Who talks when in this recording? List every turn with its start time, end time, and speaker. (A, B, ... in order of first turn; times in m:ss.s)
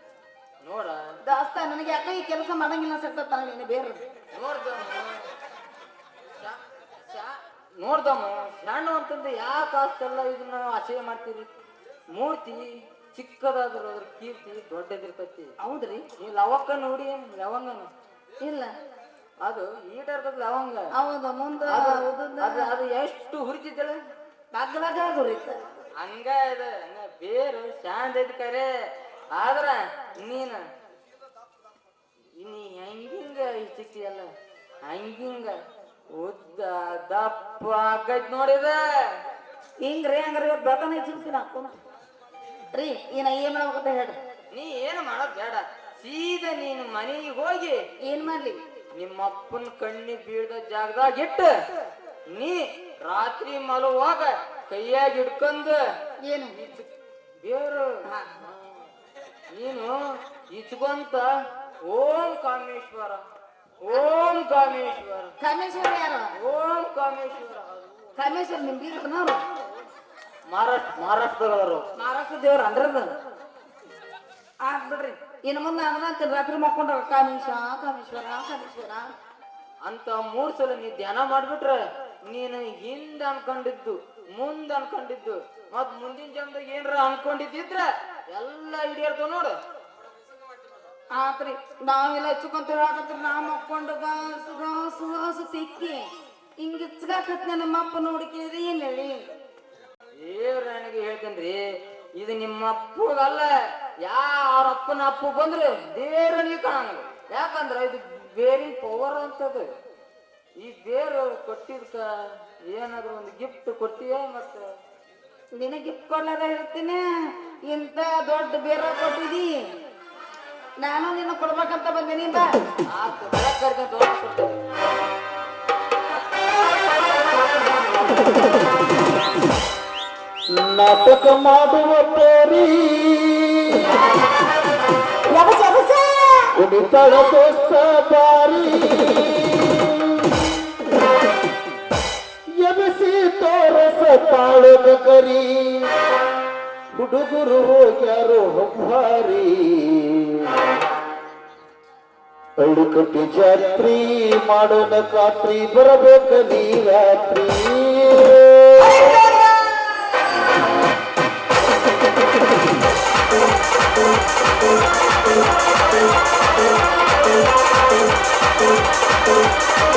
0:00.6-0:01.0 A
0:01.2-0:04.0 B
0:04.3-0:05.2 A
0:06.3-0:11.5 A
0:12.1-0:15.5 A
0:15.6-0:16.0 B
0:16.2-0:17.9 A
0:18.4-0:18.7 B
0:19.4-0:20.8 A
0:21.0-0:22.7 B
0:21.6-0:24.0 A
0:24.5-0:25.6 B
0:26.0-0:28.7 A
0:29.3-0:30.6 A
0:32.4-0:34.3 A
0:34.8-0:38.8 A
0:39.8-0:41.8 B
0:42.7-0:44.2 B
0:44.5-0:47.8 A
0:48.0-0:48.6 B
0:48.9-0:51.5 A
0:52.3-0:55.8 A
0:56.3-0:56.6 B
0:56.5-0:56.9 A
0:57.4-0:58.8 A
0:59.5-1:01.3 A
1:01.8-1:03.2 A
1:03.8-1:05.3 A
1:05.4-1:06.3 B
1:06.4-1:08.2 A
1:08.2-1:09.4 B
1:10.5-1:11.9 A
1:12.0-1:13.1 B
1:14.6-1:19.1 B
1:19.8-1:29.6 A
1:31.2-1:36.0 B
1:36.6-1:39.2 B
1:40.2-1:41.6 A
1:42.2-1:43.5 A
1:44.0-1:49.7 A
1:50.6-1:52.1 A
1:52.7-1:54.7 A
1:55.6-1:57.0 B
1:57.7-1:59.5 B
2:00.8-2:02.5 B
2:02.9-2:04.5 A
2:10.6-2:14.0 C
2:15.3-2:16.5 B
2:16.6-2:20.4 C
2:22.6-2:25.9 C
2:26.9-2:30.6 C
2:32.6-2:39.0 C